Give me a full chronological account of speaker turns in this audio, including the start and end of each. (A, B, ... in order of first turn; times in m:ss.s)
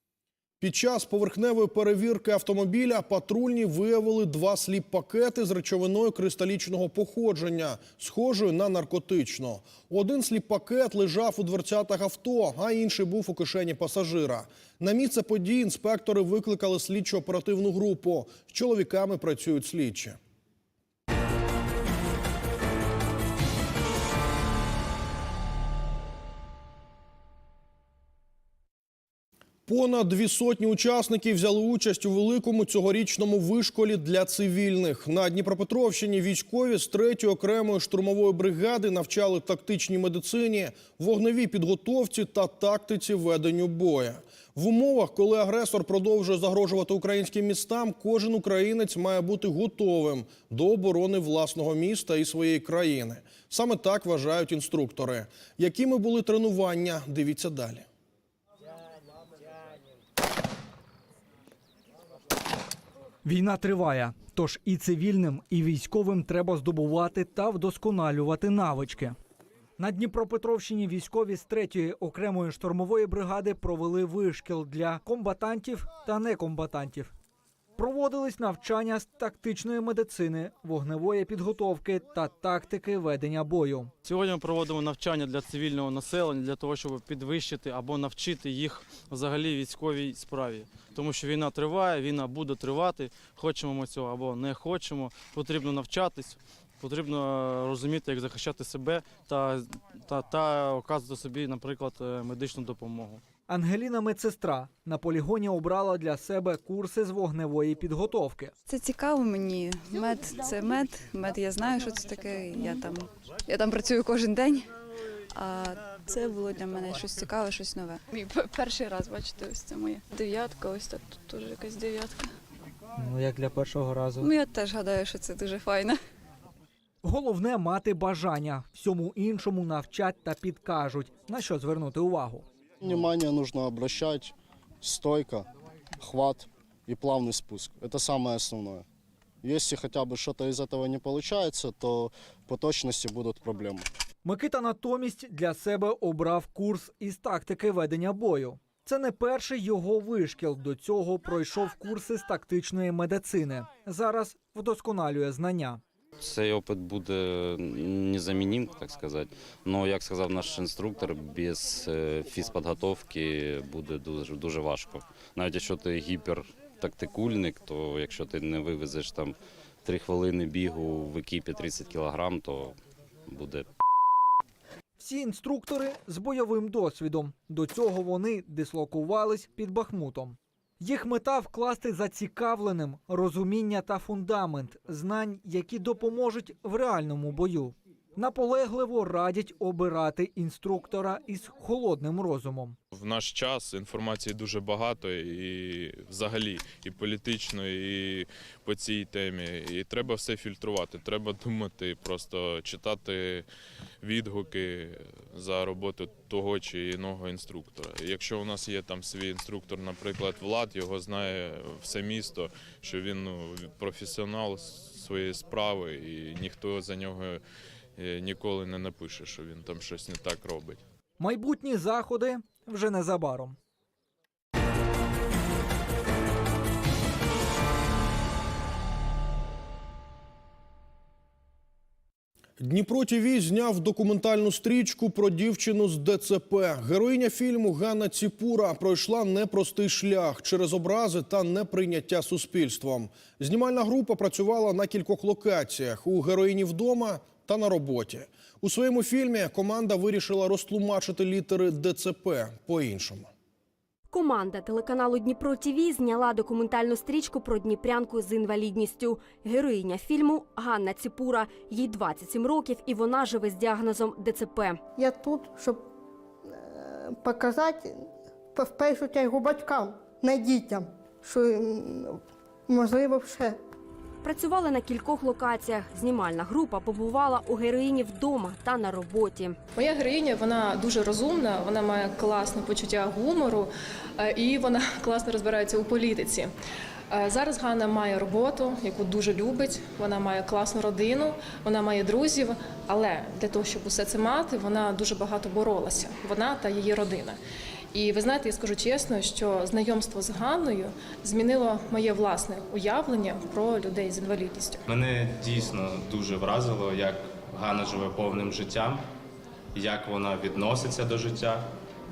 0:00.6-0:20.2 A
0:29.7-0:57.8 A
1:03.2-1:09.2 B
1:09.8-1:17.1 B
1:17.8-1:23.9 B
1:24.0-1:43.2 C
1:43.5-1:48.5 B
1:48.7-1:54.7 D
1:55.3-2:02.3 D
2:03.0-2:04.3 B
2:04.2-2:06.0 D
2:07.0-2:12.4 B
2:12.8-2:15.4 E
2:16.0-2:18.8 E
2:19.4-2:23.9 E
2:24.2-2:35.8 B
2:36.2-2:53.7 F
2:55.0-3:12.8 B
3:12.9-3:23.4 G
3:24.0-3:37.4 G
3:38.0-3:40.8 G
3:41.2-3:43.6 B
3:52.6-4:13.3 A
4:14.1-4:24.8 H
4:25.0-4:25.8 I
4:26.8-4:27.9 I
4:28.6-4:33.6 I
4:34.2-4:39.6 H
4:39.8-4:46.5 J
4:47.1-4:57.4 J
4:57.9-5:04.8 J
5:04.9-5:09.0 K
5:09.7-5:11.7 K